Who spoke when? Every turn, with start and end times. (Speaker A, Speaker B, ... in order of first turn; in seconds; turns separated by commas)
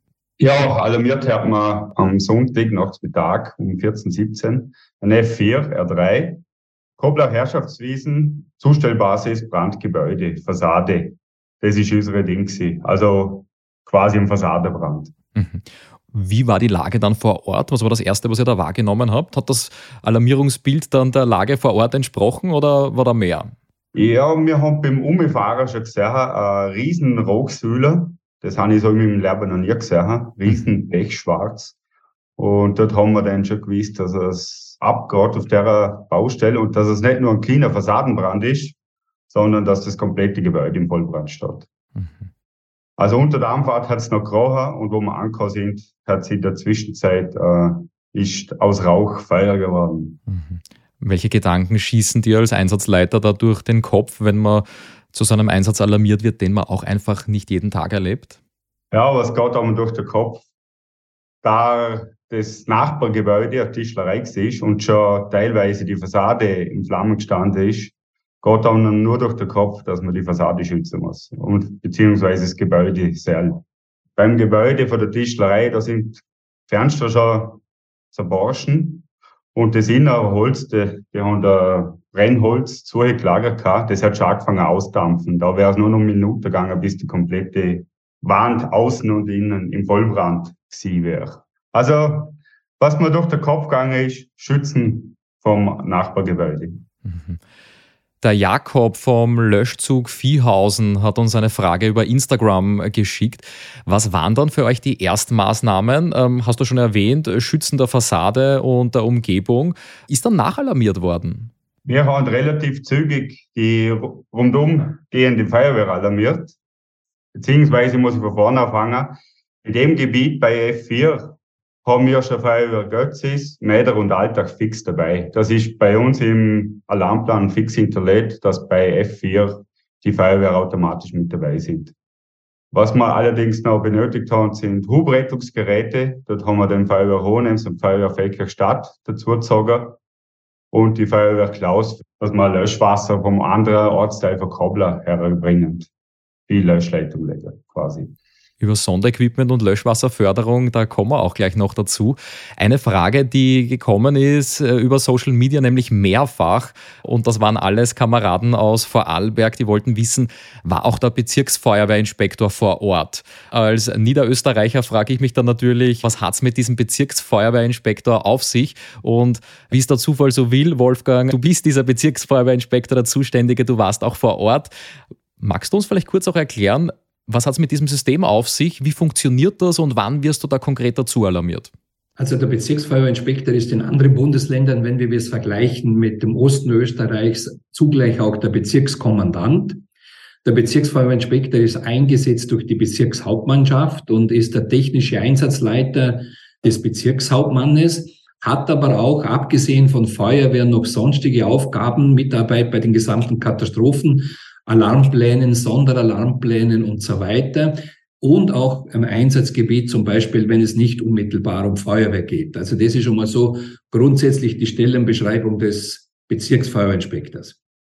Speaker A: 0.4-6.4, Speaker A: 7.0-15.1, Speaker B: 15.3-23.5, Speaker A: 23.9-31.7, Speaker A: 32.4-38.8, Speaker A: 39.3-41.7, Speaker A: 43.0-50.2, Speaker B: 50.3-58.4, Speaker A: 58.9-60.4, Speaker A: 61.4-73.6, Speaker A: 74.2-77.6, Speaker A: 78.1-96.8, Speaker B: 97.1-97.4, Speaker B: 98.2-111.5, Speaker A: 111.8-116.5, Speaker A: 117.3-131.9, Speaker A: 132.7-140.0, Speaker A: 140.7-145.9, Speaker A: 146.5-148.1, Speaker B: 148.6-174.7, Speaker B: 175.4-181.7, Speaker C: 182.2-189.8, Speaker C: 190.4-217.6